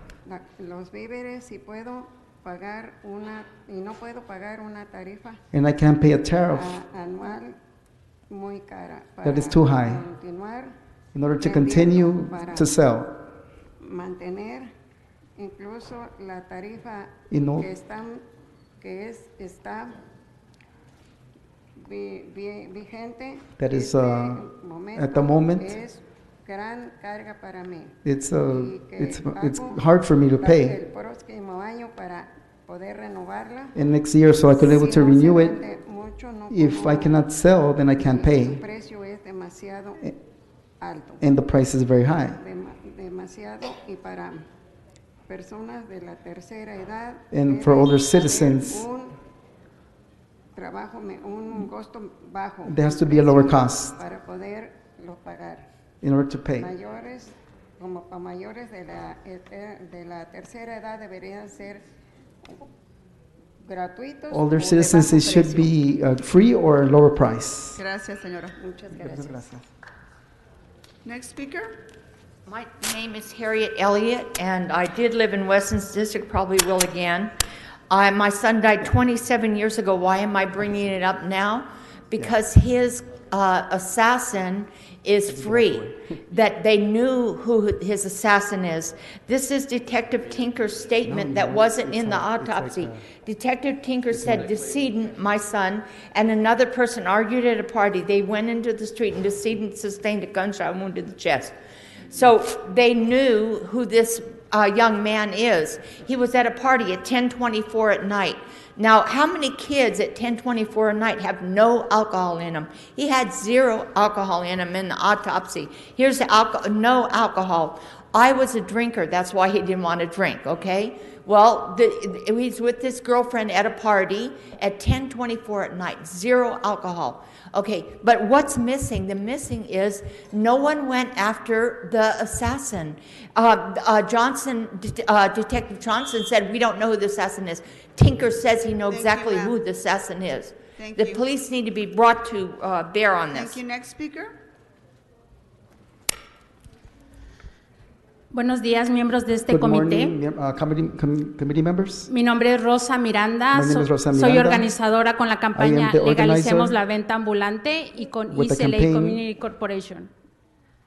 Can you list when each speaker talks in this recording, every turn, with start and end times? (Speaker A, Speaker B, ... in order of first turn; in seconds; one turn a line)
Speaker A: 0.2-5.4
Speaker B: 5.5-6.8
Speaker A: 6.5-7.6
Speaker A: 8.3-10.7
Speaker B: 9.2-10.0
Speaker B: 11.1-13.2
Speaker A: 11.4-12.7
Speaker A: 13.8-14.7
Speaker A: 15.4-18.2
Speaker B: 17.3-17.7
Speaker A: 18.8-20.0
Speaker A: 21.8-27.9
Speaker B: 23.6-25.7
Speaker B: 28.0-30.8
Speaker A: 28.5-29.8
Speaker A: 30.4-33.8
Speaker B: 33.7-35.6
Speaker A: 34.5-37.2
Speaker B: 36.5-38.6
Speaker A: 38.0-40.0
Speaker A: 40.8-41.2
Speaker B: 41.2-42.4
Speaker A: 42.4-44.4
Speaker A: 45.3-49.2
Speaker B: 47.3-48.9
Speaker A: 50.5-55.6
Speaker B: 52.6-53.9
Speaker B: 56.0-56.7
Speaker A: 56.6-61.8
Speaker A: 63.6-65.7
Speaker B: 64.3-67.8
Speaker C: 67.7-68.6
Speaker A: 68.6-69.5
Speaker B: 69.0-69.6
Speaker C: 71.0-71.8
Speaker D: 72.5-77.3
Speaker D: 77.9-101.5
Speaker B: 85.3-86.0
Speaker B: 91.0-93.1
Speaker D: 102.1-143.6
Speaker C: 138.9-139.6
Speaker C: 140.8-141.2
Speaker C: 143.3-144.4
Speaker E: 148.3-150.1
Speaker B: 149.5-152.1
Speaker E: 152.1-160.1
Speaker B: 153.5-154.7
Speaker B: 155.5-156.8
Speaker B: 158.3-159.2